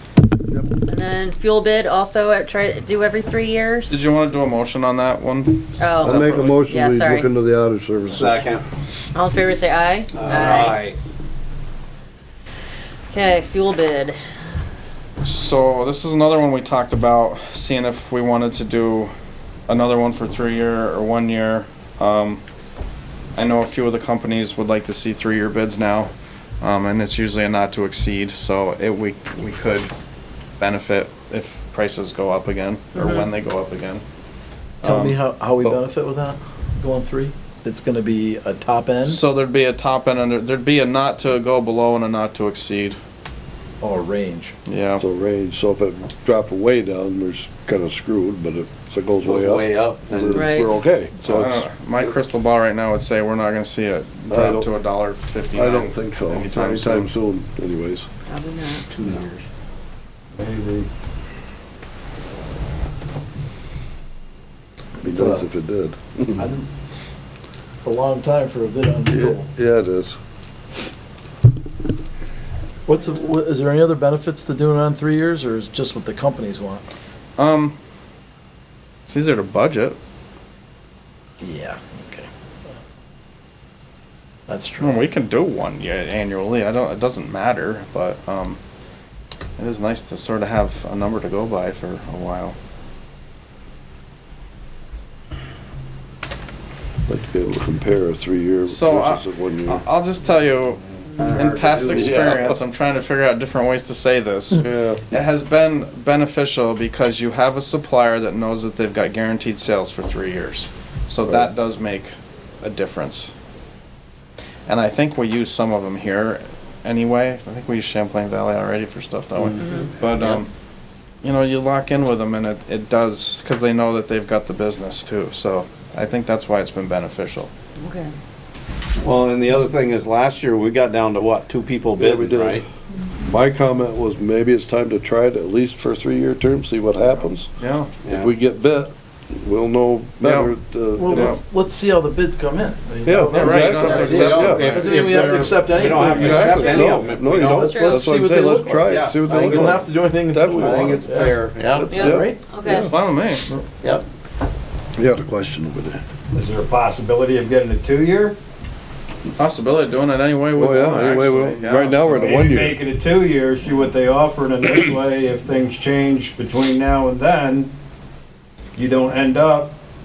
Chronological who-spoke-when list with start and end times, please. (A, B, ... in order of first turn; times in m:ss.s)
0:00.9-0:04.0 A
0:03.9-0:06.6 B
0:05.8-0:07.3 A
0:06.0-0:08.5 C
0:08.1-0:08.6 D
0:09.1-0:10.8 A
0:10.2-0:11.0 D
0:13.1-0:14.2 A
0:15.2-0:19.1 B
0:19.7-0:22.4 B
0:23.3-0:29.9 B
0:30.6-0:34.0 B
0:32.9-0:33.2 A
0:34.8-0:39.2 E
0:34.8-0:35.2 B
0:39.0-0:43.0 B
0:43.8-0:44.5 E
0:44.6-0:45.0 B
0:45.0-0:51.7 C
0:49.2-0:50.5 D
0:50.3-0:50.8 A
0:51.3-0:57.1 B
0:54.3-0:54.7 C
0:55.5-0:58.1 C
0:58.3-0:58.9 A
0:59.0-0:59.2 D
1:00.4-1:00.9 F
1:05.0-1:05.5 E
1:05.0-1:06.4 C
1:06.4-1:06.7 E
1:07.8-1:09.5 E
1:09.1-1:10.2 C
1:12.9-1:16.8 E
1:17.4-1:17.8 B
1:19.1-1:20.0 B
1:21.4-1:22.3 E
1:24.5-1:25.0 E
1:24.8-1:28.6 B
1:29.6-1:32.6 B
1:37.1-1:39.8 C
1:38.6-1:53.3 B
1:41.2-1:42.6 C
1:44.6-1:45.0 C
1:51.2-1:51.5 C
1:54.7-2:00.5 B
2:00.2-2:00.4 D
2:01.2-2:07.5 B
2:07.8-2:08.1 A
2:09.0-2:12.6 D
2:12.0-2:12.6 C
2:13.2-2:17.5 C
2:17.6-2:17.9 B
2:18.0-2:18.3 D
2:18.0-2:21.4 C
2:20.2-2:20.5 B
2:21.0-2:32.6 E
2:21.1-2:21.4 B
2:23.0-2:24.8 C
2:23.3-2:25.2 B
2:23.7-2:27.7 D
2:26.1-2:28.0 A
2:26.1-2:31.0 C
2:28.8-2:29.8 D
2:30.5-2:32.0 D
2:31.7-2:32.9 C
2:31.9-2:32.9 A
2:32.7-2:33.4 B
2:35.0-2:36.0 C
2:36.3-2:38.4 F
2:39.4-2:42.4 B
2:40.5-2:42.9 C
2:42.2-2:47.7 F
2:48.8-2:49.7 F